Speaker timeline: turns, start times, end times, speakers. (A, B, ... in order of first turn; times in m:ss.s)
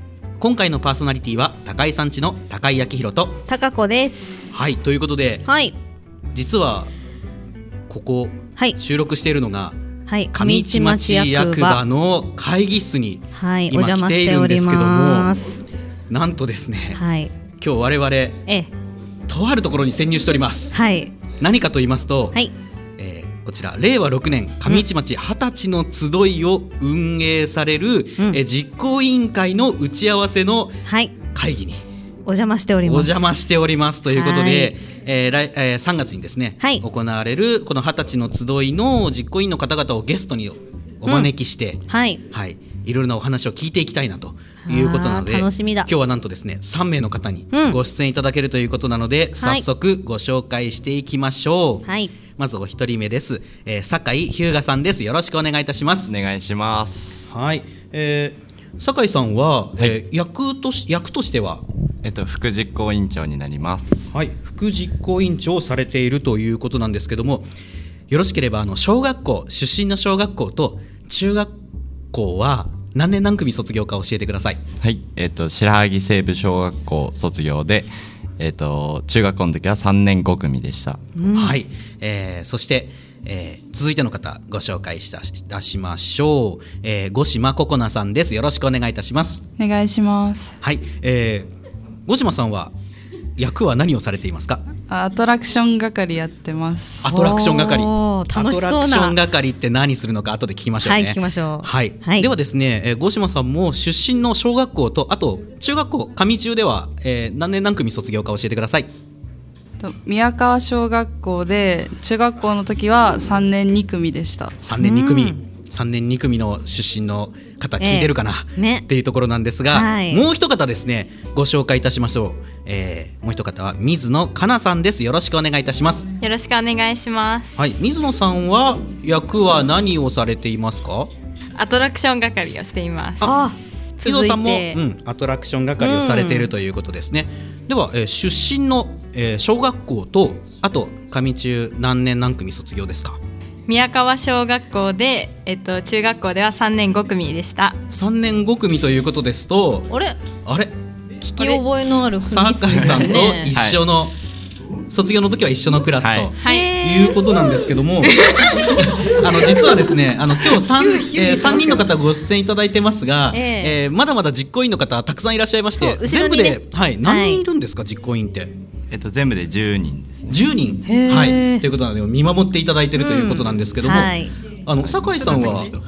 0:00.4-0:03.4 A
0:03.5-0:04.5 B
0:04.5-0:05.5 A
0:05.5-0:05.7 B
0:06.3-0:06.9 A
0:07.9-0:09.8 A
0:10.1-0:11.8 B
0:10.3-0:15.4 A
0:13.3-0:15.6 B
0:16.1-0:17.0 A
0:16.9-0:17.3 B
0:17.6-0:18.4 A
0:18.4-0:18.7 B
0:19.3-0:20.8 A
0:20.7-0:21.2 B
0:21.4-0:22.4 A
0:23.0-0:31.8 A
0:30.8-0:31.1 B
0:32.2-0:33.5 B
0:32.8-0:56.1 A
0:34.1-0:34.7 B
0:41.0-0:41.3 B
0:41.9-0:42.2 B
0:44.6-0:45.9 B
0:47.5-0:47.8 B
0:49.4-0:49.6 B
0:51.8-0:52.1 B
0:56.0-0:57.3 C
0:57.3-1:01.6 A
1:02.0-1:04.1 C
1:04.1-1:07.5 A
1:08.1-1:11.5 A
1:12.1-1:14.6 A
1:14.8-1:21.0 C
1:21.2-1:21.6 B
1:21.3-1:29.4 A
1:29.6-1:30.5 D
1:30.6-1:31.5 A
1:32.0-1:32.7 A
1:33.4-1:34.7 A
1:34.9-1:37.0 D
1:37.0-1:48.9 A
1:37.1-1:39.2 B
1:40.8-1:42.3 B
1:49.8-1:54.6 D
1:54.6-2:06.1 A
1:54.8-1:55.4 B
1:57.8-1:58.8 B
1:59.7-2:00.2 B
2:06.2-2:07.6 E
2:07.6-2:11.1 A
2:11.6-2:13.3 E
2:13.2-2:14.8 B
2:14.0-2:23.2 A
2:15.8-2:16.5 B
2:23.7-2:27.8 E
2:27.9-2:30.8 A
2:29.9-2:30.2 B
2:31.3-2:33.5 B
2:31.3-2:31.6 A
2:32.2-2:34.2 A
2:33.5-2:33.8 C
2:34.9-2:48.5 A
2:36.0-2:36.3 C
2:36.4-2:36.7 E
2:36.4-2:37.3 B
2:38.0-2:39.7 E
2:40.5-2:41.8 E
2:43.3-2:43.8 B
2:45.8-2:47.4 B
2:48.9-2:50.4 C
2:50.3-2:55.7 A
2:50.8-2:51.7 B
2:53.0-2:54.3 B
2:54.9-2:55.3 C